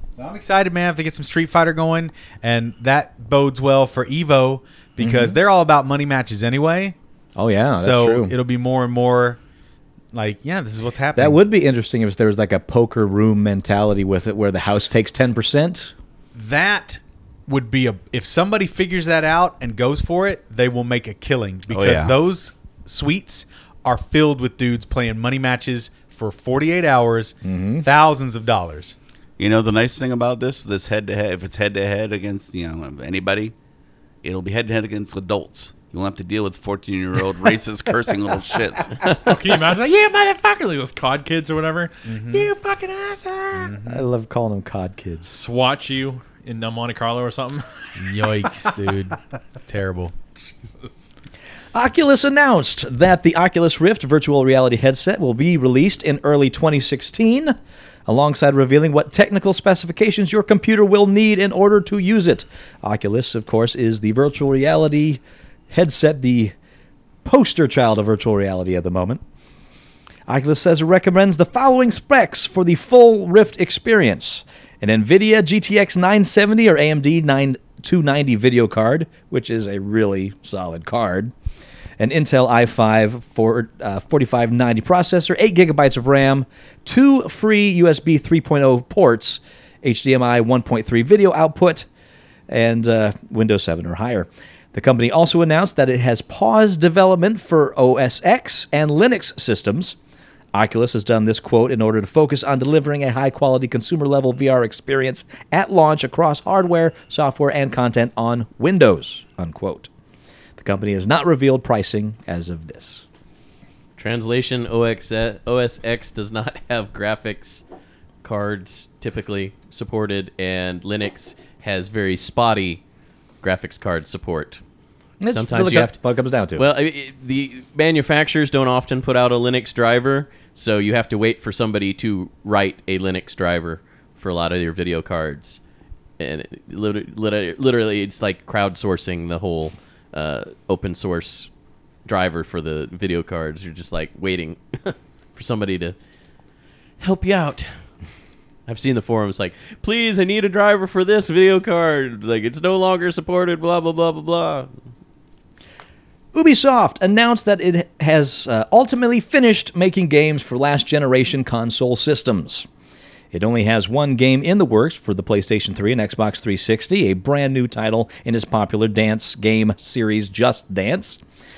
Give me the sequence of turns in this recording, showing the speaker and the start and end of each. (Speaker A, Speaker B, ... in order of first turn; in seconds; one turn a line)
Speaker A: 0.1-7.0
Speaker B: 5.0-5.4
Speaker B: 7.4-8.3
Speaker A: 7.8-9.4
Speaker A: 10.1-11.4
Speaker B: 11.2-15.9
Speaker A: 16.3-29.0
Speaker C: 21.7-22.1
Speaker B: 27.4-27.9
Speaker C: 29.4-33.5
Speaker C: 34.2-39.0
Speaker D: 39.1-43.6
Speaker A: 42.1-42.5
Speaker A: 43.5-44.0
Speaker B: 43.5-45.3
Speaker D: 45.3-48.2
Speaker A: 48.0-50.1
Speaker B: 51.7-66.5
Speaker B: 67.2-69.2
Speaker B: 70.3-81.3
Speaker B: 82.0-91.9
Speaker B: 92.5-100.0
Speaker B: 100.5-109.9
Speaker B: 110.6-113.0
Speaker E: 114.0-117.6
Speaker E: 118.2-122.8
Speaker E: 123.4-124.6
Speaker B: 125.2-126.7
Speaker E: 125.3-126.0
Speaker E: 126.6-135.6
Speaker E: 136.2-141.5
Speaker E: 142.1-146.0
Speaker E: 147.0-147.7
Speaker E: 148.7-154.7
Speaker B: 156.3-162.7
Speaker B: 163.3-171.2